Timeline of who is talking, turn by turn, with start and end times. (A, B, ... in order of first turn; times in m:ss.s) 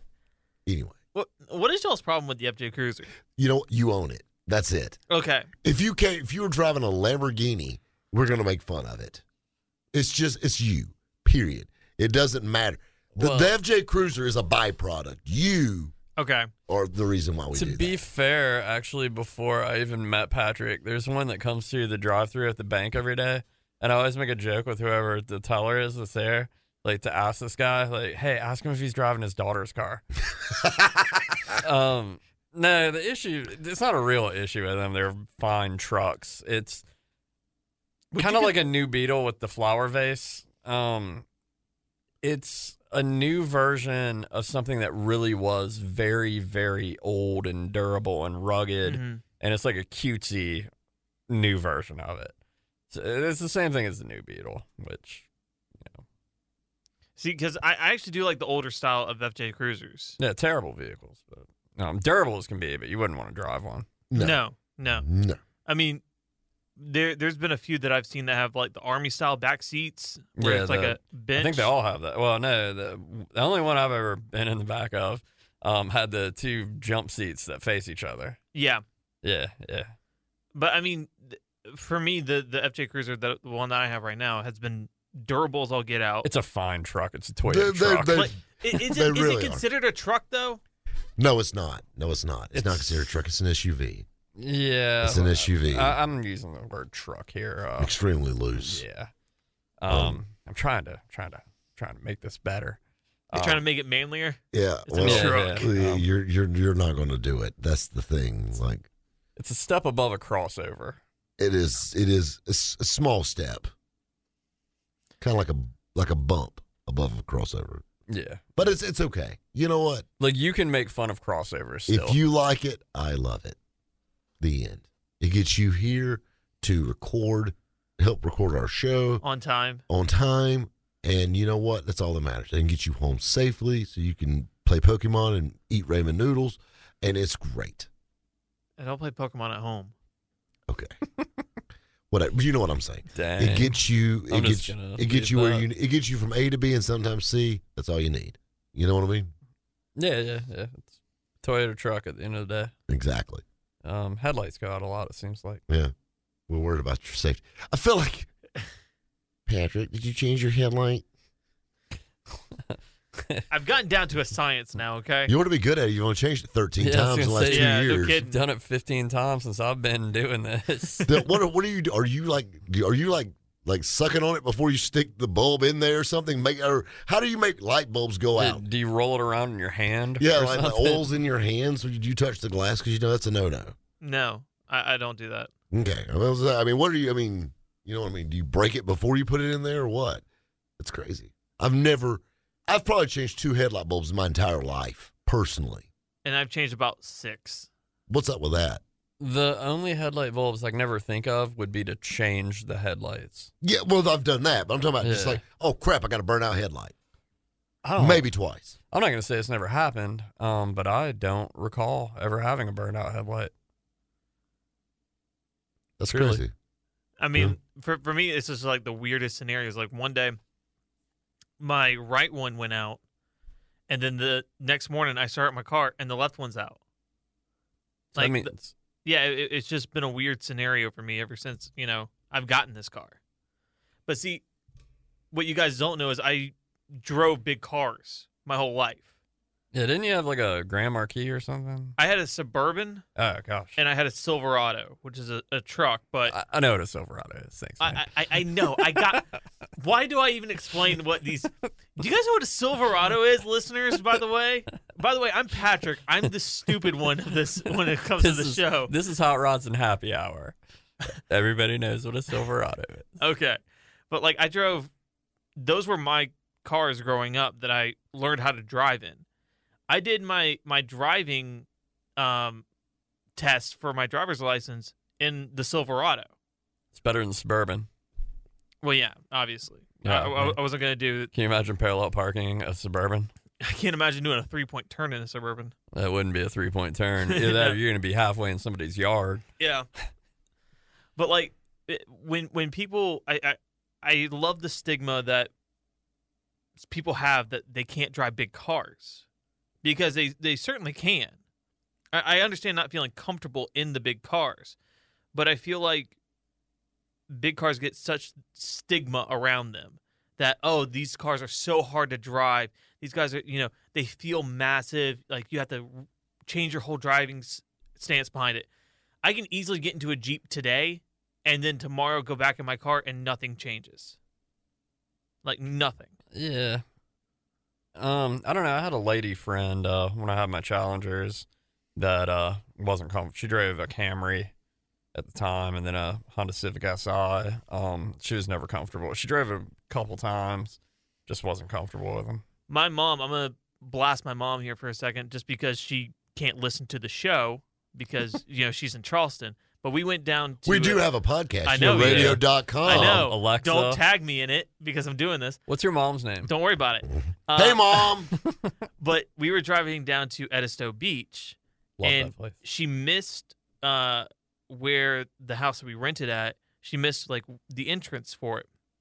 0:00.7-0:01.0 A
0:01.1-0:03.1 B
0:03.4-0:05.0 A
0:05.1-0:05.5 B
0:05.6-0:09.2 A
0:09.9-0:15.9 A
0:13.2-0:13.5 C
0:16.2-0:16.5 B
0:16.7-0:18.0 A
0:17.5-0:30.0 C
0:31.6-0:36.8 C
0:38.1-0:38.6 B
0:38.2-0:41.2 C
0:42.2-0:50.7 C
0:48.8-0:49.2 B
0:51.3-0:52.3 C
0:52.9-0:55.2 C
0:57.2-1:00.2 B
1:00.2-1:03.9 C
1:04.1-1:04.4 A
1:04.2-1:05.1 B
1:04.9-1:05.4 A
1:05.7-1:06.0 B
1:06.8-1:11.7 B
1:10.4-1:18.4 C
1:18.5-1:18.8 B
1:19.2-1:19.9 C
1:20.6-1:26.3 B
1:26.2-1:28.3 C
1:27.4-1:29.6 A
1:28.1-1:30.6 B
1:31.2-1:34.1 A
1:34.4-1:38.0 C
1:35.0-1:36.0 A
1:37.8-1:38.8 A
1:38.6-1:39.1 C
1:39.8-1:42.8 C
1:39.9-1:40.2 A
1:43.3-1:43.6 C
1:43.3-1:45.7 B
1:44.5-1:48.9 A
1:45.0-1:46.1 C
1:49.4-1:51.0 C
1:51.4-1:53.7 A
1:55.2-1:57.8 A
1:58.1-1:58.4 C
1:58.6-2:00.0 A
2:00.2-2:02.2 C
2:01.9-2:03.6 A
2:04.4-2:09.2 A
2:09.2-2:09.8 B
2:09.9-2:17.9 A
2:18.8-2:19.9 B
2:20.7-2:20.9 A
2:22.1-2:29.3 A
2:23.2-2:25.7 C
2:30.0-2:32.7 C
2:32.9-2:33.4 A
2:33.8-2:35.6 C
2:36.5-2:38.3 A
2:39.5-2:41.0 A
2:42.6-2:43.5 C
2:43.5-2:45.3 B
2:45.3-2:48.2 A
2:46.8-2:51.1 C
2:47.5-2:48.4 B
2:51.1-2:58.6 A
2:58.4-3:01.1 C
3:00.2-3:03.8 A
3:04.0-3:05.5 B
3:05.7-3:10.2 A
3:10.8-3:15.9 A
3:16.2-3:17.7 B
3:18.1-3:18.8 A
3:19.2-3:23.5 C
3:23.6-3:26.9 A
3:25.0-3:25.4 C
3:27.8-3:28.3 C
3:28.0-3:28.8 A
3:28.9-3:33.5 C
3:36.0-3:36.5 A
3:36.1-3:36.4 C
3:37.2-3:40.4 B
3:41.6-3:43.0 B
3:43.9-3:46.8 B
3:48.2-3:48.7 C
3:48.2-3:48.5 B
3:49.0-3:53.2 B
3:54.1-3:54.4 B
3:55.3-3:59.1 B
3:59.7-4:02.0 C
4:02.0-4:03.0 B
4:03.2-4:03.8 C
4:03.8-4:06.4 B
4:06.3-4:08.0 C
4:07.8-4:18.9 B
4:18.2-4:20.6 C
4:21.3-4:23.1 C
4:23.2-4:23.6 B
4:24.1-4:24.9 B
4:25.6-4:29.2 B
4:29.9-4:31.7 B
4:32.2-4:32.6 B
4:33.4-4:36.3 B
4:37.0-4:37.9 C
4:38.8-4:41.3 B
4:40.0-4:40.6 C
4:41.3-4:43.3 C
4:43.6-4:45.7 B
4:45.9-4:49.4 C
4:47.3-4:47.8 B
4:49.6-4:49.9 B
4:51.2-4:55.5 B
4:56.8-4:59.2 B
4:59.8-5:01.4 B
5:02.1-5:04.8 B
5:05.3-5:06.1 B
5:07.3-5:18.7 B
5:19.2-5:24.2 B
5:25.4-5:26.1 B
5:26.3-5:26.8 C
5:28.0-5:34.5 C
5:35.2-5:42.4 C
5:42.7-5:51.1 B
5:50.7-5:53.3 A
5:51.6-5:55.6 B
5:51.9-5:54.0 C
5:55.7-5:56.5 C
5:56.4-5:58.2 B
5:57.5-5:58.3 A
5:59.0-6:08.7 B
6:02.0-6:02.6 C